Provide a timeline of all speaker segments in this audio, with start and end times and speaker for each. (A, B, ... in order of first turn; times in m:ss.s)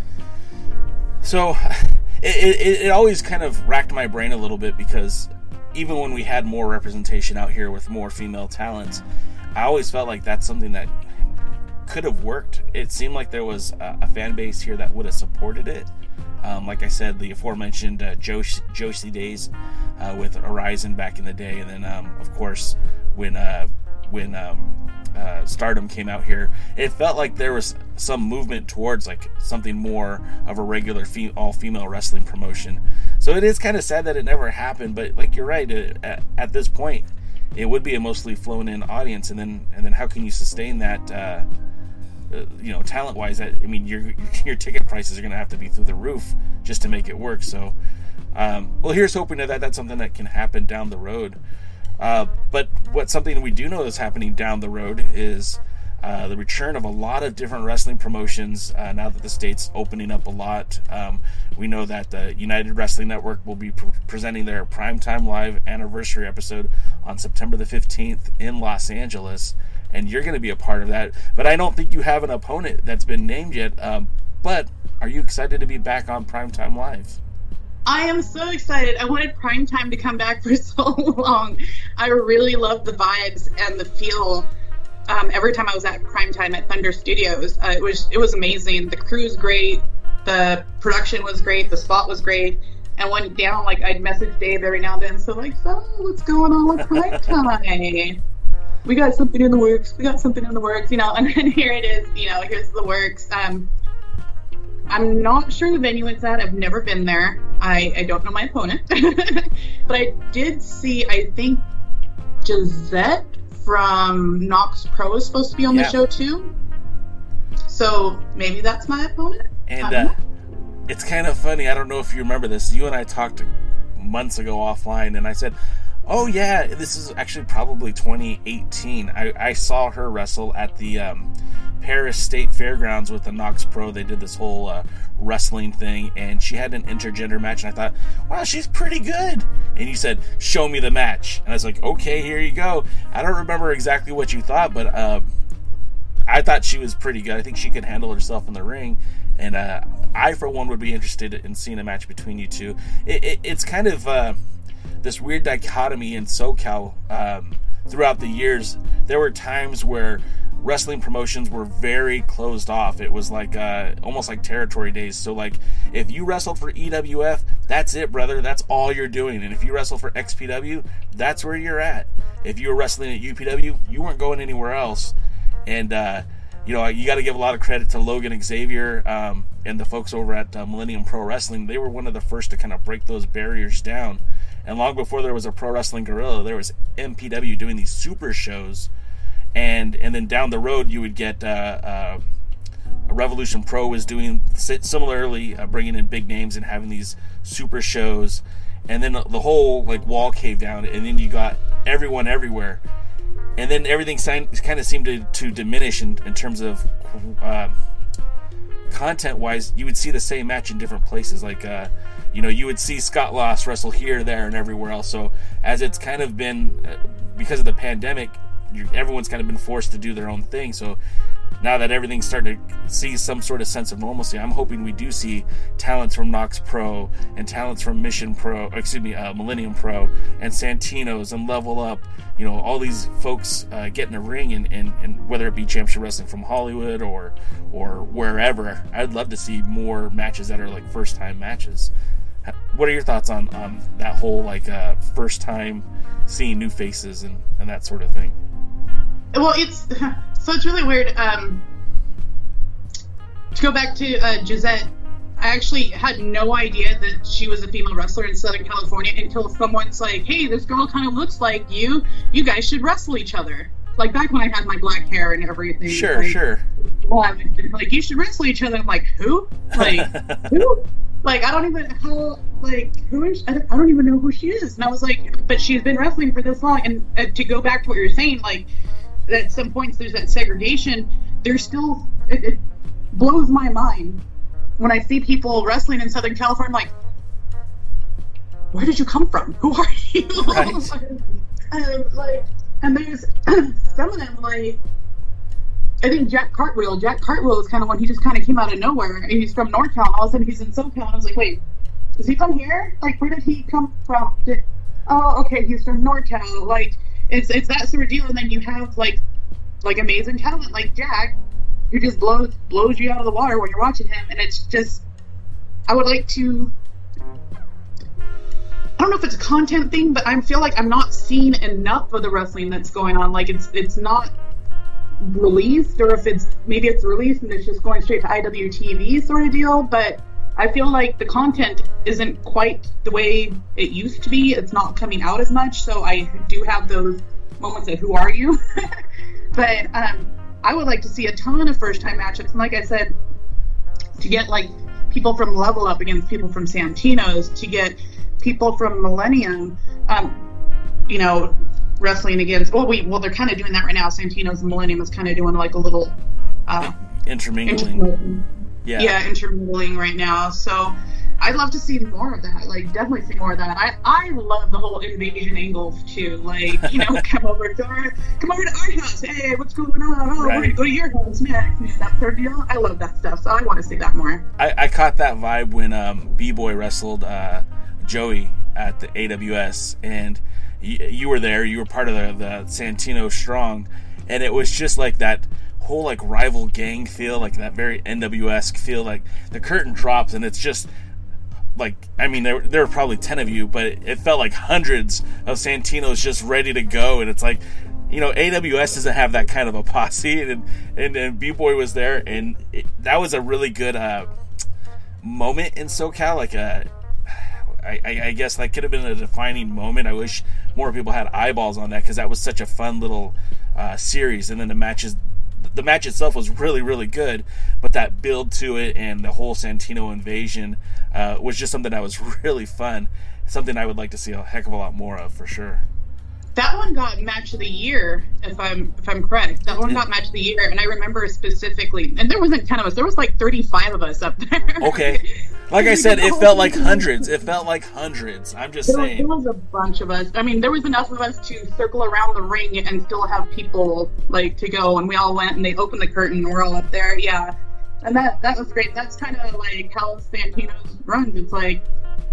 0:01.2-0:09.0 A
0:09.5-0:10.9 A
0:11.9-0:15.9 A
0:16.4-0:41.5 A
0:42.3-0:47.8 A
0:48.3-0:51.4 A
0:52.0-1:17.2 A
1:17.9-1:24.5 B
1:25.1-1:38.2 B
1:37.0-1:37.4 A
1:38.8-1:43.7 B
1:44.9-1:51.7 B
1:52.4-1:56.6 B
1:55.7-1:56.0 A
1:57.7-2:00.2 B
1:59.7-2:00.1 A
2:00.9-2:05.6 A
2:06.1-2:25.2 A
2:26.3-2:34.4 A
2:35.0-2:55.2 A
2:55.7-3:08.9 A
3:09.5-3:12.2 A
3:13.1-3:22.8 A
3:23.6-3:27.7 A
3:28.9-3:41.0 A
3:41.6-4:01.9 A
4:02.4-4:08.4 A
4:09.3-4:11.6 B
4:13.6-4:26.4 B
4:25.9-4:26.6 A
4:27.0-4:38.7 B
4:29.7-4:30.5 A
4:39.3-4:42.6 B
4:43.1-4:44.2 B
4:44.8-4:46.9 B
4:48.7-4:54.8 B
4:50.4-4:50.9 A
4:56.0-5:01.6 B
5:02.2-5:09.2 B
5:09.8-5:11.4 B
5:11.9-5:15.0 B
5:15.9-5:16.7 B
5:19.0-5:24.3 B
5:25.2-5:39.0 B
5:39.5-5:43.1 B
5:44.2-5:50.4 B
5:51.1-5:57.0 B
5:56.8-5:58.0 A
5:57.7-6:14.5 B
5:58.8-5:59.2 A
6:06.8-6:07.2 A
6:10.4-6:10.8 A
6:14.6-6:30.9 A
6:31.8-6:44.3 A
6:45.2-7:05.8 A
7:06.6-7:17.4 B
7:14.8-7:19.3 A
7:18.8-7:31.8 B